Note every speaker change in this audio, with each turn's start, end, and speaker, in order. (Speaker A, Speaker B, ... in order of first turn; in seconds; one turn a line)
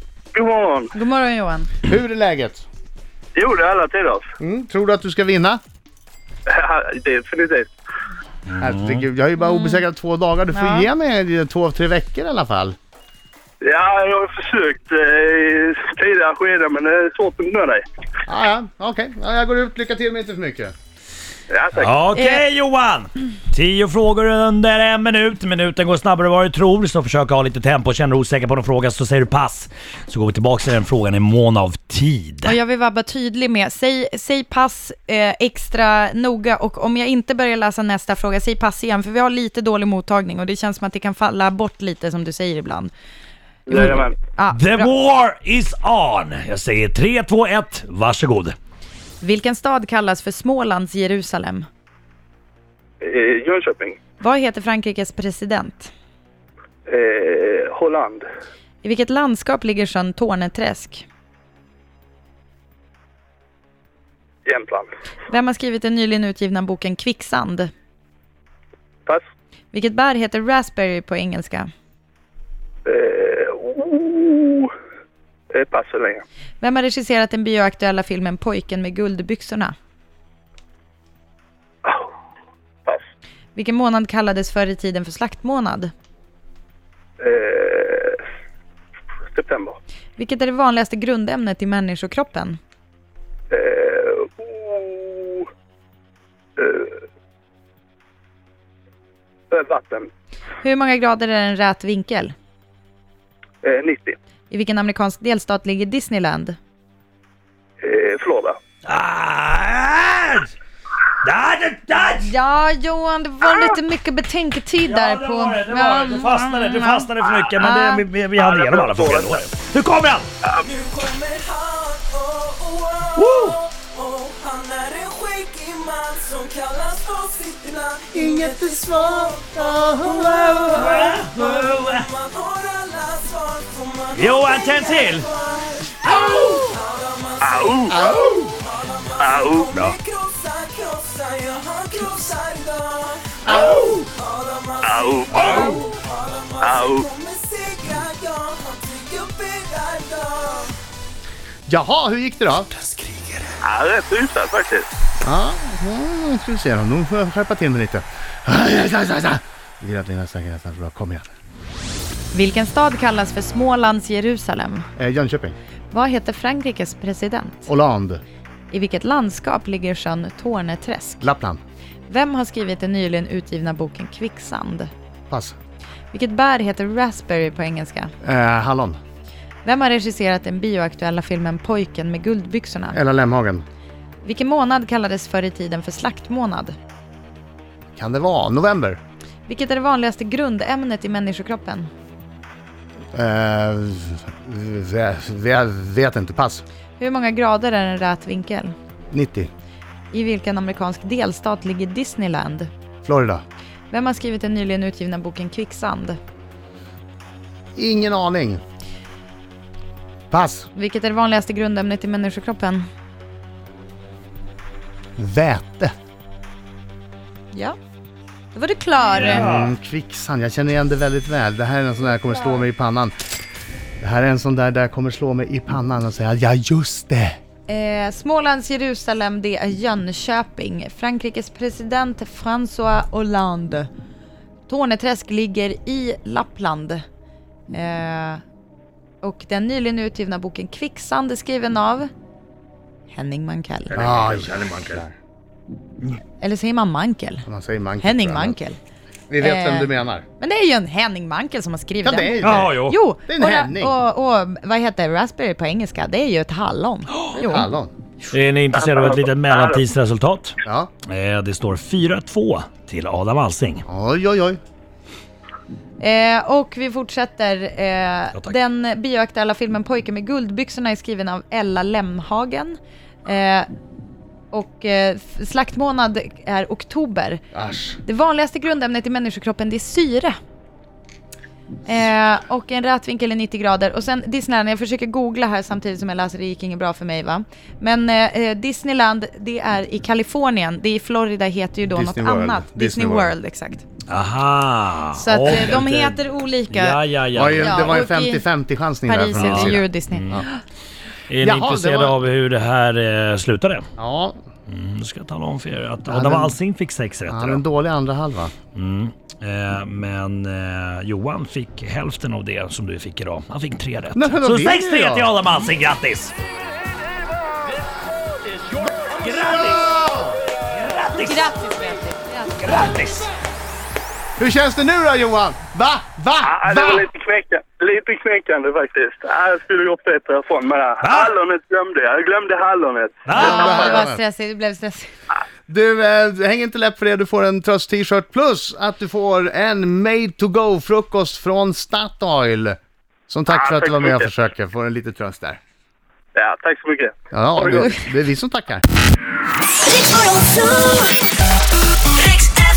Speaker A: 0.3-0.9
Speaker B: 0.9-1.7
Speaker C: 1.8-2.7
Speaker A: 3.3-4.3
Speaker C: 4.4-5.6
Speaker A: 6.5-7.7
Speaker D: 8.5-9.1
Speaker C: 8.6-12.8
Speaker B: 9.4-9.8
Speaker B: 10.5-10.9
Speaker A: 13.6-17.8
Speaker C: 18.2-20.7
Speaker A: 21.5-21.9
Speaker D: 21.7-32.5
Speaker B: 32.4-42.9
Speaker A: 43.7-44.2
Speaker B: 43.7-44.9
Speaker D: 44.5-48.5
Speaker B: 49.2-51.7
Speaker A: 53.0-54.0
Speaker B: 54.2-55.9
Speaker A: 56.9-58.3
Speaker B: 58.8-61.1
Speaker A: 64.5-64.9
Speaker B: 65.3-67.7
Speaker B: 69.7-71.7
Speaker A: 72.8-74.7
Speaker A: 75.5-76.2
Speaker B: 76.6-79.7
Speaker A: 81.8-82.1
Speaker B: 83.5-85.9
Speaker A: 87.2-88.2
Speaker A: 89.3-89.8
Speaker B: 90.2-92.6
Speaker A: 93.5-95.5
Speaker A: 96.6-97.0
Speaker A: 99.5-100.1
Speaker B: 100.6-102.3
Speaker A: 103.6-104.2
Speaker B: 104.5-106.6
Speaker A: 107.8-108.6
Speaker D: 108.8-110.5
Speaker D: 111.2-112.3
Speaker B: 112.2-118.0
Speaker A: 113.5-113.7
Speaker D: 114.8-120.3
Speaker A: 118.3-119.5
Speaker E: 120.6-150.8
Speaker D: 123.1-123.6
Speaker C: 128.1-131.1
Speaker D: 130.7-132.1
Speaker D: 134.1-135.3
Speaker D: 136.0-136.7
Speaker A: 137.4-138.0
Speaker C: 137.9-138.5
Speaker A: 139.2-139.7
Speaker C: 143.4-144.1
Speaker A: 144.8-145.6
Speaker A: 146.6-147.1
Speaker C: 151.7-152.7
Speaker A: 153.6-154.9
Speaker C: 155.2-161.3
Speaker B: 162.3-164.9
Speaker C: 165.0-165.6
Speaker B: 165.9-167.7
Speaker C: 167.7-168.2
Speaker B: 168.7-171.2
Speaker C: 171.2-171.6
Speaker B: 172.1-174.9
Speaker C: 175.3-175.6
Speaker B: 176.1-178.1
Speaker C: 178.2-179.0
Speaker B: 179.6-183.0
Speaker C: 182.9-183.6
Speaker B: 184.2-186.8
Speaker C: 187.9-189.0
Speaker B: 189.5-191.9
Speaker C: 193.1-196.6
Speaker B: 197.0-198.7
Speaker C: 199.1-199.5
Speaker B: 200.1-202.7
Speaker C: 203.0-203.4
Speaker B: 203.9-206.2
Speaker C: 207.8-208.6
Speaker C: 210.3-210.7
Speaker B: 210.7-212.8
Speaker C: 215.2-215.9
Speaker B: 218.5-219.5
Speaker D: 219.1-219.7
Speaker C: 219.3-223.2
Speaker C: 224.0-227.4
Speaker B: 227.7-233.9
Speaker B: 234.7-237.0
Speaker B: 237.7-238.4
Speaker B: 239.2-242.1
Speaker B: 243.1-243.9
Speaker D: 243.9-245.0
Speaker C: 243.9-245.1
Speaker B: 246.4-247.4
Speaker C: 247.4-248.6
Speaker B: 248.0-248.8
Speaker C: 249.3-250.2
Speaker B: 249.4-257.7
Speaker C: 252.0-253.9
Speaker D: 252.4-253.0
Speaker C: 257.3-257.9
Speaker D: 258.3-260.6
Speaker A: 258.8-259.8
Speaker C: 260.6-260.9
Speaker D: 261.1-263.8
Speaker C: 263.9-264.6
Speaker B: 266.0-273.7
Speaker B: 274.5-277.4
Speaker C: 277.5-278.0
Speaker B: 278.0-280.4
Speaker B: 281.9-293.9
Speaker C: 291.9-293.3
Speaker D: 294.1-298.0
Speaker B: 295.1-297.0
Speaker C: 297.3-300.4
Speaker B: 297.6-298.4
Speaker B: 299.0-300.6
Speaker D: 299.3-300.4
Speaker D: 301.3-303.9
Speaker C: 301.4-302.2
Speaker C: 304.0-304.4
Speaker D: 304.7-307.6
Speaker C: 306.1-306.6
Speaker C: 307.3-308.5
Speaker D: 308.7-316.3
Speaker C: 314.1-315.3
Speaker D: 319.1-320.1
Speaker D: 320.7-321.6
Speaker B: 321.2-322.6
Speaker D: 322.6-323.3
Speaker C: 324.4-327.1
Speaker A: 326.4-333.9
Speaker D: 331.0-331.3
Speaker D: 333.2-334.0
Speaker C: 333.3-334.2
Speaker B: 333.3-335.1
Speaker C: 335.7-345.6
Speaker A: 343.5-344.3
Speaker A: 346.3-347.9
Speaker C: 347.3-348.8
Speaker B: 349.9-351.1